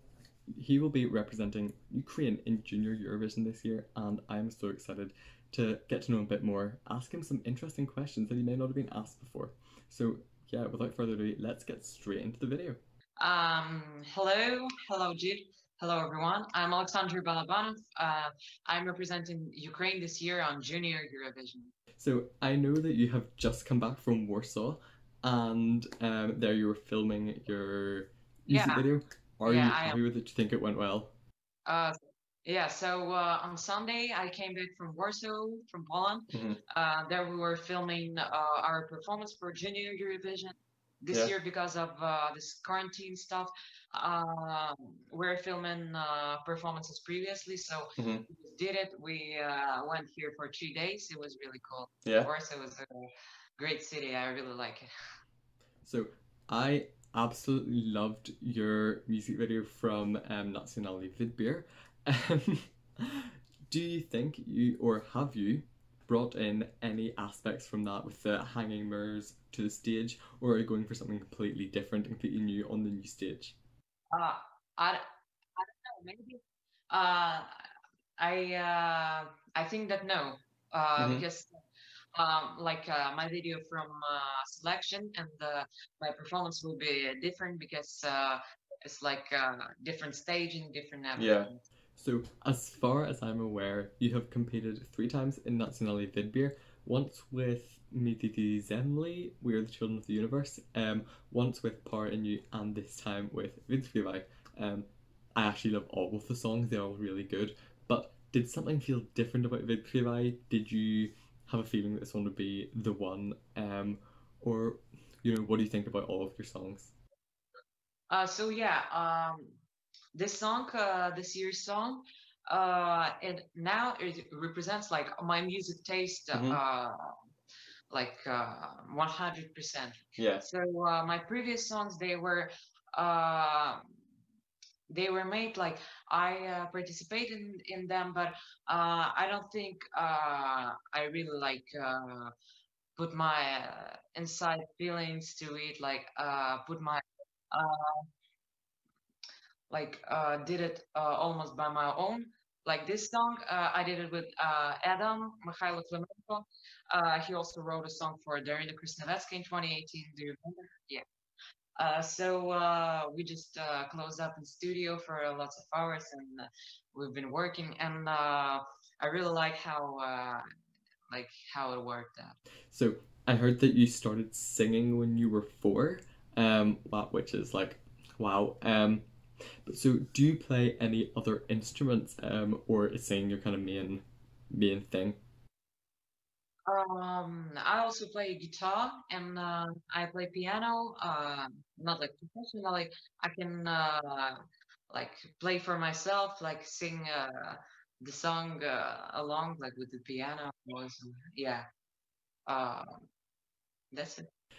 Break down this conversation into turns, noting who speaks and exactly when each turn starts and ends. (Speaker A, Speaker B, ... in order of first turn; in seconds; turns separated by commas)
Speaker A: 0.5-12.8, Speaker B: 13.2-21.7, Speaker A: 22.0-31.1, Speaker B: 28.5-28.9, Speaker B: 29.4-30.0, Speaker B: 31.7-52.9, Speaker A: 36.3-36.6, Speaker A: 48.0-48.3, Speaker B: 53.6-54.9, Speaker A: 55.8-73.6, Speaker B: 74.1-75.0, Speaker B: 75.6-76.4, Speaker B: 76.9-77.5, Speaker B: 78.2-81.5, Speaker A: 81.0-81.2, Speaker B: 82.2-91.6, Speaker A: 91.2-116.9, Speaker B: 118.1-119.6, Speaker B: 120.2-127.2, Speaker A: 126.3-126.6, Speaker B: 127.9-133.9, Speaker A: 130.2-130.5, Speaker B: 134.9-142.3, Speaker B: 143.0-148.0, Speaker B: 149.7-161.0, Speaker B: 161.8-170.4, Speaker B: 171.1-172.4, Speaker A: 172.7-179.1, Speaker A: 179.7-185.2, Speaker B: 186.7-194.4, Speaker B: 194.9-201.7, Speaker B: 202.5-203.1, Speaker B: 203.9-204.3